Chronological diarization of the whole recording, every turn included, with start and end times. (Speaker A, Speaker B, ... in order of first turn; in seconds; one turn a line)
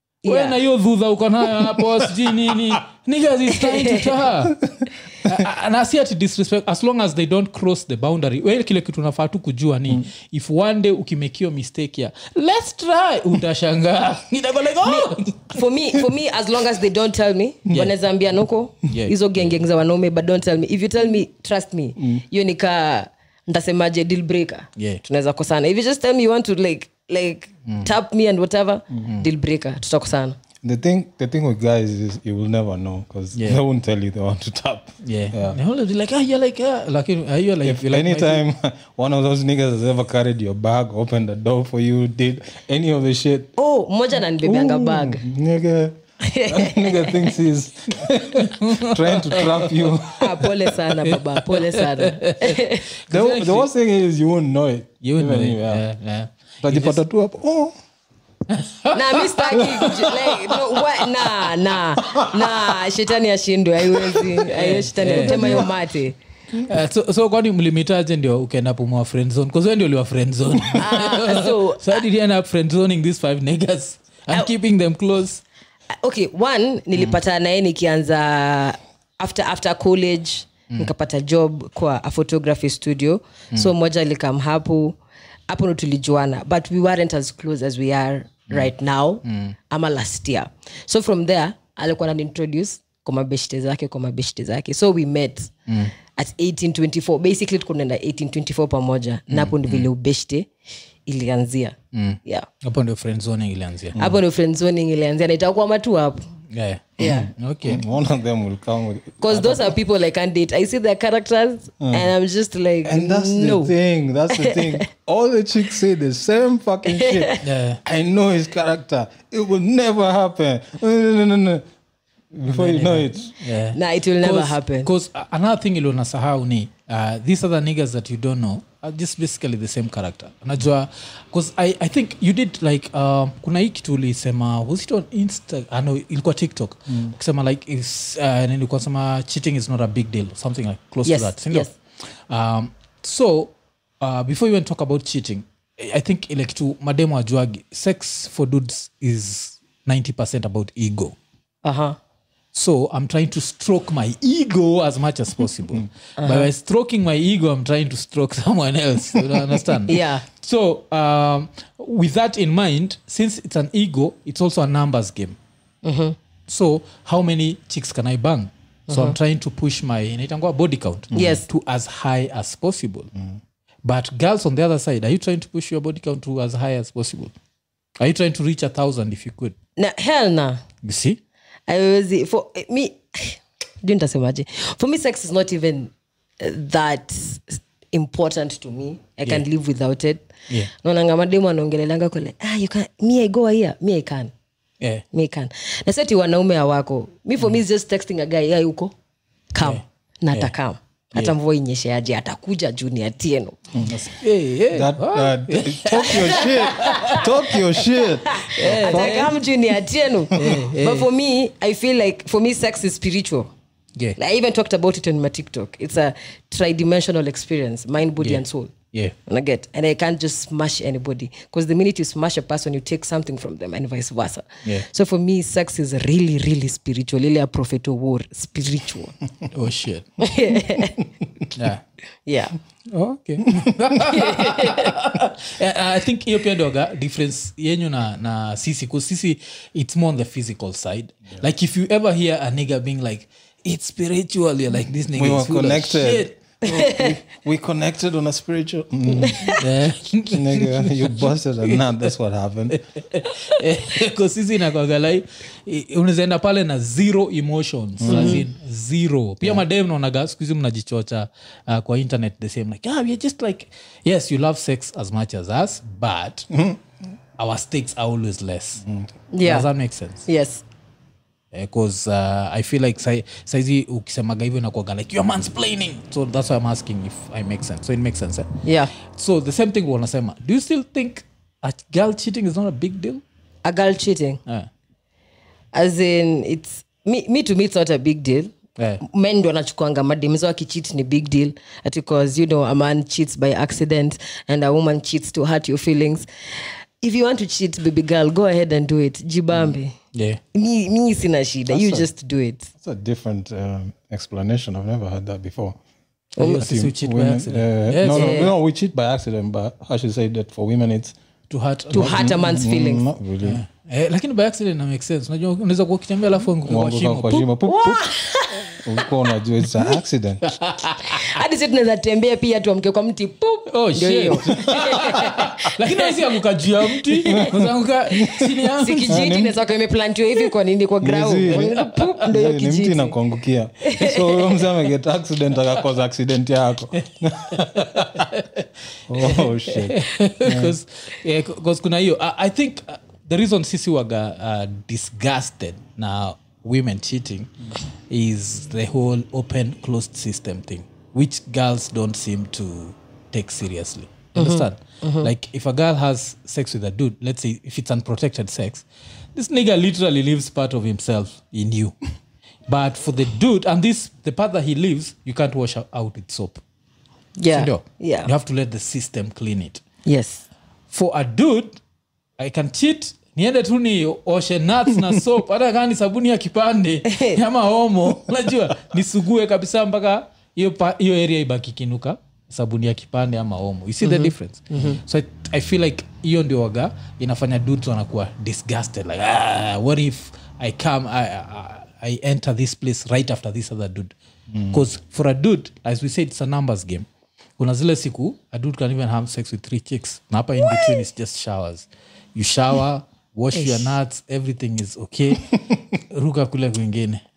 Speaker A: 0.2-0.6
Speaker B: 0.2-4.6
Speaker C: 1.6-2.5
Speaker A: 3.6-4.0
Speaker C: 4.7-5.4
Speaker B: 5.2-15.6
Speaker A: 14.8-30.4
Speaker B: 18.9-19.6
Speaker C: 22.0-22.2
Speaker B: 24.8-25.0
Speaker C: 30.6-35.6
Speaker B: 35.0-38.4
Speaker C: 37.6-43.5
Speaker A: 43.6-45.2
Speaker C: 44.4-50.5
Speaker A: 46.2-47.4
Speaker B: 48.0-49.9
Speaker A: 50.2-52.9
Speaker B: 50.9-53.7
Speaker C: 53.1-55.8
Speaker B: 55.0-57.0
Speaker C: 56.6-57.8
Speaker B: 58.5-61.2
Speaker A: 58.9-66.2
Speaker B: 64.5-65.7
Speaker C: 65.2-65.7
Speaker B: 66.6-75.4
Speaker A: 70.8-72.0
Speaker A: 76.0-95.5
Speaker B: 89.2-89.6
Speaker B: 95.7-95.9
Speaker A: 96.2-100.5
Speaker B: 99.3-99.9
Speaker A: 101.1-102.5
Speaker B: 101.9-104.0
Speaker A: 104.0-106.3
Speaker B: 106.5-107.8
Speaker A: 107.0-107.3
Speaker C: 107.0-109.8
Speaker A: 109.2-113.7
Speaker C: 111.8-112.1
Speaker C: 112.8-121.7
Speaker A: 114.3-114.8
Speaker A: 116.9-117.4
Speaker B: 117.4-117.8
Speaker C: 122.3-123.3
Speaker B: 122.5-141.7
Speaker A: 123.7-124.9
Speaker A: 141.1-141.7
Speaker B: 142.3-151.2
Speaker A: 151.6-152.0
Speaker B: 152.5-165.4
Speaker A: 156.2-156.5
Speaker A: 159.9-160.2
Speaker A: 165.8-166.2
Speaker B: 166.5-173.1
Speaker A: 168.9-169.2
Speaker A: 171.1-171.4
Speaker B: 173.8-177.3
Speaker B: 178.0-179.6
Speaker A: 179.8-180.6
Speaker B: 180.8-181.2
Speaker A: 181.7-190.3
Speaker A: 190.8-194.3
Speaker A: 195.1-198.9
Speaker A: 199.5-203.6
Speaker B: 199.6-200.5
Speaker B: 203.8-207.2
Speaker C: 204.7-209.3
Speaker A: 206.0-207.2
Speaker A: 208.3-213.5
Speaker B: 208.6-209.3
Speaker B: 210.3-211.1
Speaker A: 214.2-218.7
Speaker B: 218.2-219.2
Speaker A: 219.3-229.1
Speaker B: 229.5-230.3
Speaker A: 230.2-231.0
Speaker B: 231.5-231.8
Speaker A: 232.3-232.6
Speaker B: 232.9-246.4
Speaker A: 234.0-234.9
Speaker C: 245.2-249.5
Speaker A: 246.7-247.1
Speaker A: 249.1-249.6
Speaker B: 249.6-251.8
Speaker C: 250.2-252.8
Speaker B: 252.7-266.5
Speaker C: 258.0-258.4
Speaker A: 258.1-258.4
Speaker C: 266.5-266.8
Speaker B: 267.4-268.8
Speaker C: 268.8-269.1
Speaker A: 269.3-269.7
Speaker B: 269.4-270.3
Speaker A: 270.3-270.6
Speaker B: 271.5-278.5
Speaker A: 278.6-278.9
Speaker B: 279.0-283.2
Speaker A: 283.6-284.4
Speaker A: 285.7-296.3
Speaker A: 297.0-299.9
Speaker B: 300.1-300.4
Speaker A: 300.5-302.7
Speaker C: 301.7-302.1
Speaker C: 302.8-305.8
Speaker A: 306.4-306.6
Speaker B: 306.4-308.5
Speaker C: 306.6-311.1
Speaker A: 308.1-308.5
Speaker B: 311.5-312.3
Speaker A: 311.9-313.1
Speaker C: 311.9-313.6
Speaker B: 313.4-317.5
Speaker C: 316.6-318.1
Speaker A: 317.7-319.1
Speaker C: 318.8-320.4
Speaker B: 320.4-321.4
Speaker A: 321.1-326.3
Speaker B: 323.7-329.3
Speaker A: 326.9-327.5
Speaker C: 327.3-328.5
Speaker A: 328.8-333.2
Speaker C: 329.1-329.6
Speaker C: 331.0-338.3
Speaker A: 333.8-334.6
Speaker B: 337.6-338.6
Speaker C: 339.1-340.8
Speaker B: 339.2-347.5
Speaker B: 348.1-361.9
Speaker A: 354.3-355.3
Speaker B: 362.7-366.6
Speaker A: 367.4-368.3
Speaker B: 367.5-369.8
Speaker A: 370.1-370.4
Speaker B: 370.9-371.8
Speaker B: 372.4-394.1
Speaker A: 377.1-377.4
Speaker A: 384.0-385.0
Speaker C: 394.5-394.8
Speaker B: 394.7-397.1
Speaker B: 397.6-407.2
Speaker A: 400.7-401.0
Speaker A: 403.5-403.9
Speaker C: 405.4-405.8